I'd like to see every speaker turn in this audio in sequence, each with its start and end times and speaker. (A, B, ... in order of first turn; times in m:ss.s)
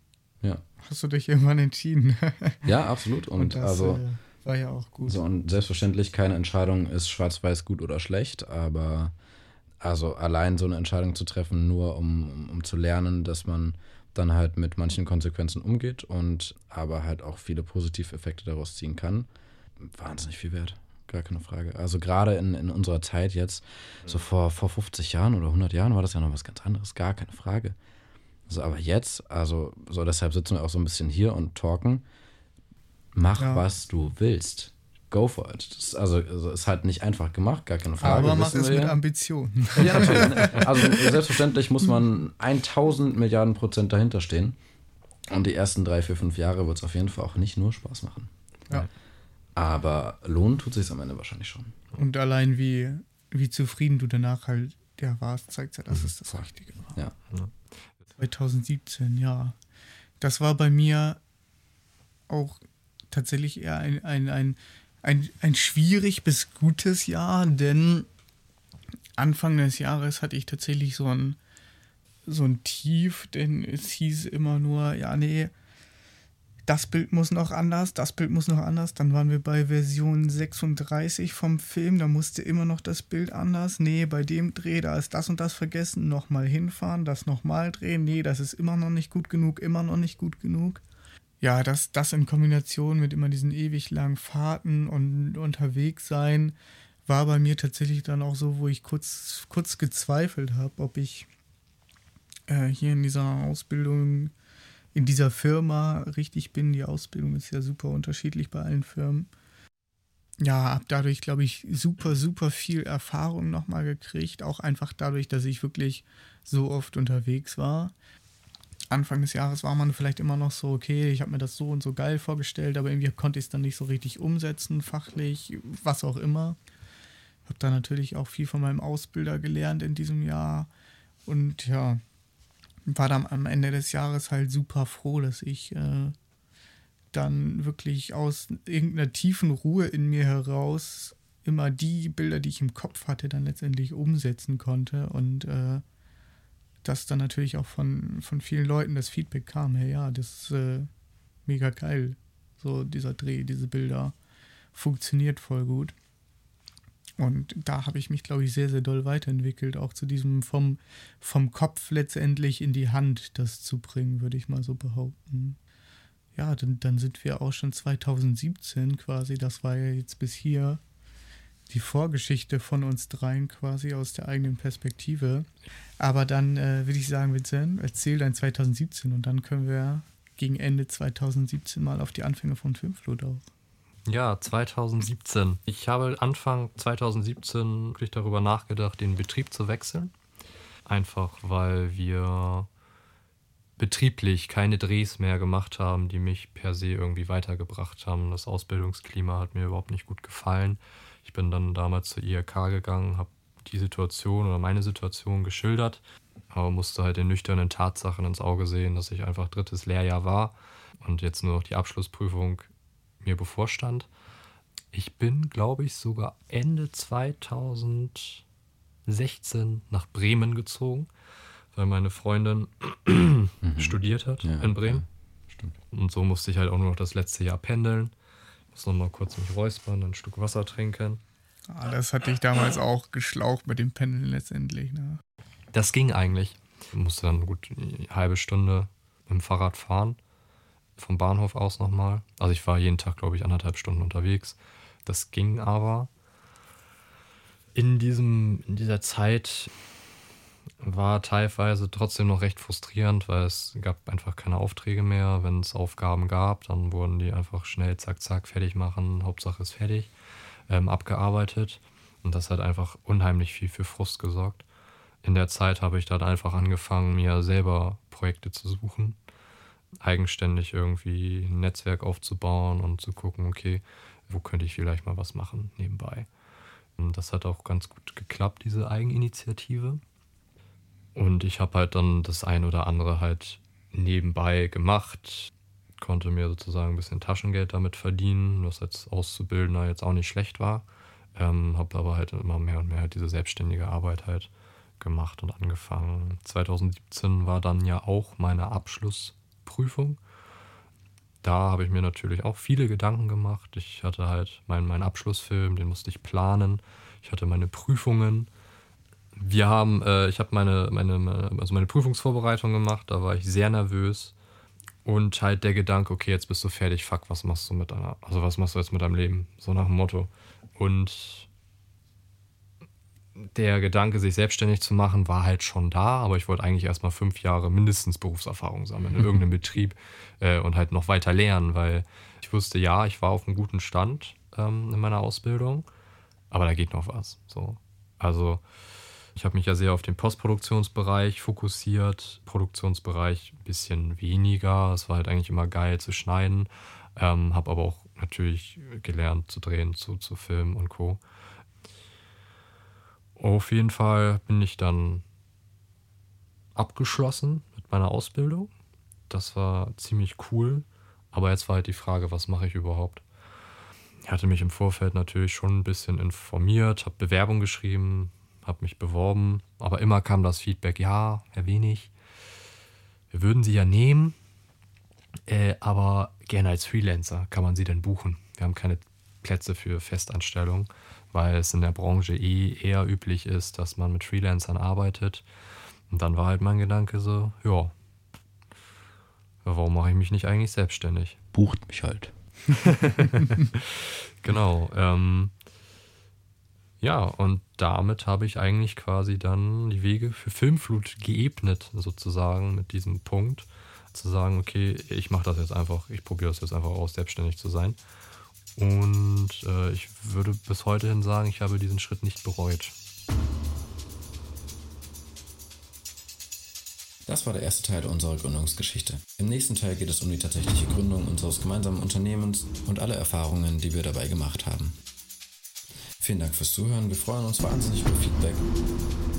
0:00.8-0:02.7 A
0:02.6-0:04.0 B
0:03.4-0:05.2 A
0:05.1-0:09.1 B
0:09.8-0:27.8 B
0:28.5-0:32.0 B
0:33.2-0:39.0 B
0:33.4-0:33.7 A
0:38.0-0:41.2 A
0:39.8-0:44.6 B
0:45.3-0:48.3 B
0:49.6-0:51.9 B
0:52.0-0:57.0 A
0:55.9-0:57.2 B
0:58.2-0:59.6 A
1:00.2-1:01.2 A
1:02.3-1:02.6 A
1:03.1-1:08.1 A
1:09.2-1:11.4 A
1:12.3-1:15.5 A
1:16.7-1:30.8 A
1:31.4-1:36.6 A
1:37.1-1:41.3 A
1:42.5-1:44.3 A
1:44.9-1:49.3 A
1:50.4-1:57.9 A
1:58.9-2:06.6 A
2:07.4-2:10.7 A
2:11.3-2:12.0 A
2:12.9-2:16.2 A
2:17.1-2:25.8 A
2:26.8-2:30.9 A
2:31.5-2:34.2 A
2:34.7-2:36.0 A
2:37.2-2:45.6 A
2:46.4-2:50.8 A
2:51.7-2:55.5 A
2:56.0-3:03.4 A
3:04.1-3:10.1 C
3:10.9-3:12.7 C
3:13.8-3:32.7 C
3:33.2-3:34.1 C
3:34.9-3:38.4 C
3:39.1-3:41.1 C
3:41.7-3:45.0 C
3:43.6-3:45.8 B
3:45.9-3:48.1 C
3:48.7-3:51.2 C
3:51.7-3:55.2 A
3:55.7-4:00.2 C
4:01.0-4:06.1 C
4:07.8-4:09.7 C
4:10.8-4:20.1 C
4:20.7-4:24.6 C
4:25.2-4:29.2 C
4:30.0-4:36.3 C
4:37.0-4:40.0 C
4:41.2-5:00.2 C
5:01.4-5:08.5 C
5:09.4-5:14.4 C
5:15.0-5:21.5 C
5:23.4-5:35.9 C
5:36.5-5:38.6 C
5:39.4-5:51.2 C
5:53.4-5:55.2 C
5:56.8-5:58.7 C
5:59.3-6:03.2 C
6:04.2-6:12.1 C
6:13.3-6:14.4 C
6:15.5-6:25.4 C
6:26.1-6:27.9 C
6:29.6-6:31.4 C
6:31.5-6:32.3 B
6:32.7-6:35.5 C
6:37.0-6:48.0 C
6:48.8-6:52.9 C
6:57.3-7:05.0 B
7:06.2-7:08.7 B